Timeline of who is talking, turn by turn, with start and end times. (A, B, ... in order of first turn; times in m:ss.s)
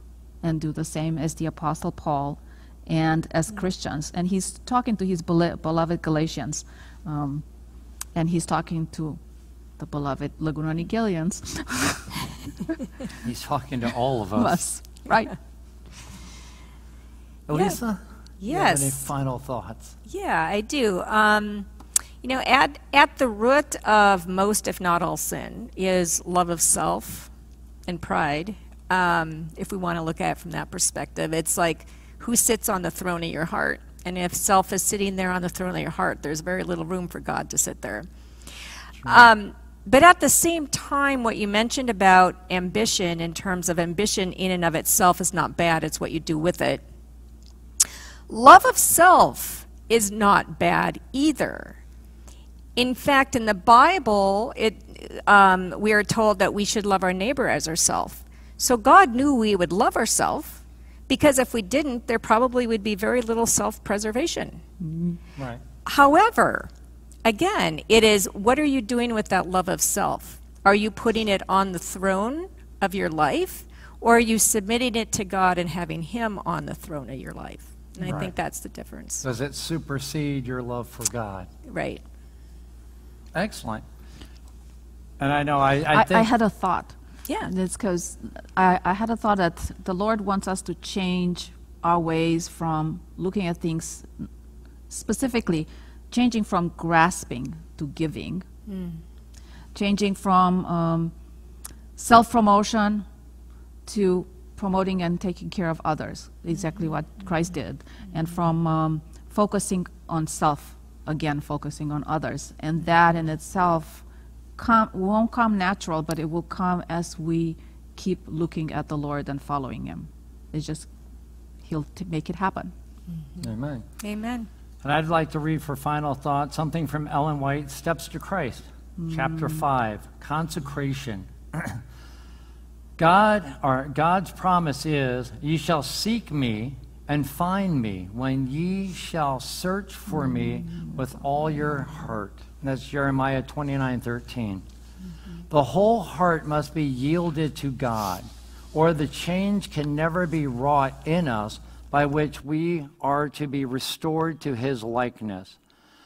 0:00.4-0:07.4 A
0:08.1-0:09.2 A
0:09.8-0:12.5 A
0:13.2-0:14.6 B
0:14.4-0:15.4 A
0:17.5-0:20.0 B
0:17.5-0:17.8 C
0:18.4-0:19.1 C
0:20.0-0:21.7 C
0:22.2-0:27.3 C
0:27.9-0:38.1 C
0:39.0-0:46.8 C
0:48.3-0:51.8 C
0:52.8-1:04.6 C
1:04.8-1:05.1 A
1:05.4-1:05.6 B
1:05.8-1:06.7 C
1:07.2-1:19.2 C
1:18.0-1:18.3 B
1:19.2-1:21.5 B
1:21.6-1:22.0 C
1:23.3-1:23.8 B
1:25.2-1:26.3 B
1:25.9-1:34.1 A
1:34.9-1:38.4 A
1:38.7-1:39.0 C
1:39.7-1:41.1 A
1:42.0-1:43.0 A
1:43.8-1:54.0 A
1:54.6-2:00.9 A
2:01.6-2:02.7 A
2:03.4-2:03.8 B
2:04.0-2:04.5 C
2:04.8-2:11.8 B
2:09.0-2:09.6 A
2:13.0-2:24.6 B
2:25.5-2:35.6 B